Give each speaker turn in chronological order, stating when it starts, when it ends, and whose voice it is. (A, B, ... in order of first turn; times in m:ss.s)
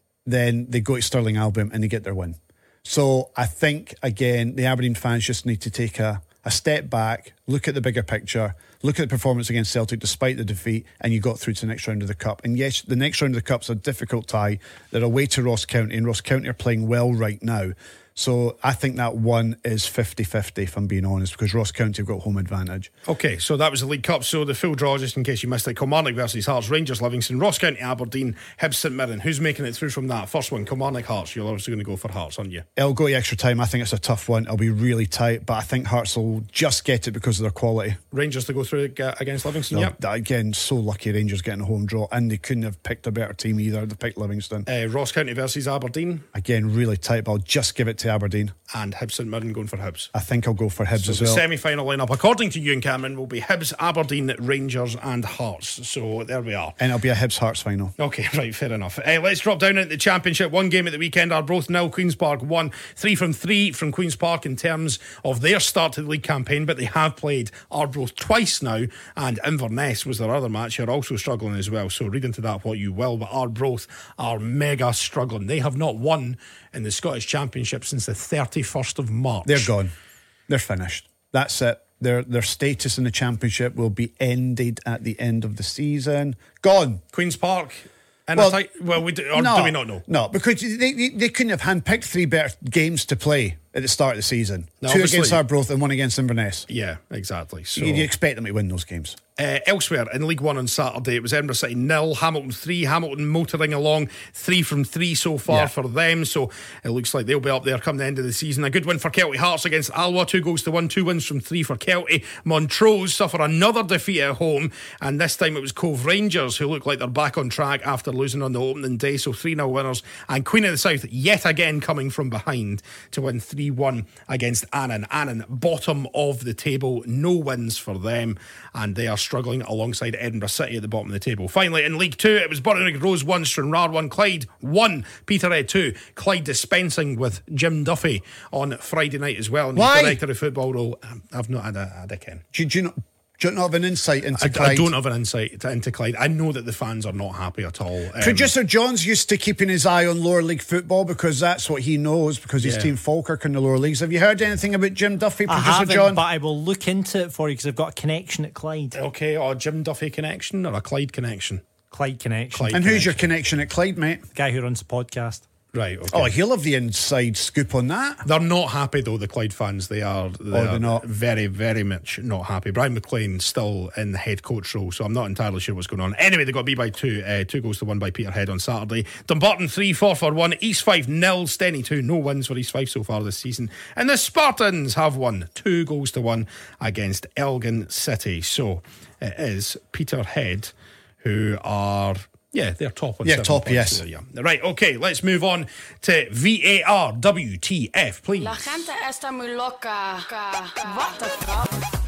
0:00.3-0:22.9 A
0:23.1-0:32.7 B
0:32.8-0:38.0 A
0:38.1-0:40.0 B
0:39.7-0:44.7 A
0:44.7-0:46.3 B
0:46.3-0:48.5 A
0:48.7-0:50.1 B
0:50.1-0:51.4 A
0:51.0-0:56.8 B
0:56.8-0:57.9 A
0:58.0-1:19.7 B
1:19.4-1:19.9 A
1:20.5-1:27.0 A
1:27.1-1:30.0 B
1:29.3-1:36.7 A
1:34.8-1:35.4 B
1:36.7-1:38.1 B
1:37.8-1:39.2 A
1:39.4-2:22.4 B
2:19.8-2:20.2 A
2:22.5-2:24.9 A
2:24.4-2:28.5 B
2:28.2-2:36.2 A
2:32.6-2:32.9 B
2:35.5-2:39.0 C
2:39.0-2:41.6 B
2:41.9-2:43.1 C
2:42.5-2:43.2 B
2:42.7-2:44.3 A
2:44.3-2:45.4 C
2:45.7-2:46.3 B
2:46.1-2:48.2 A
2:48.2-3:18.6 B
2:50.5-2:51.0 A
3:13.2-3:14.0 A
3:18.4-3:21.8 D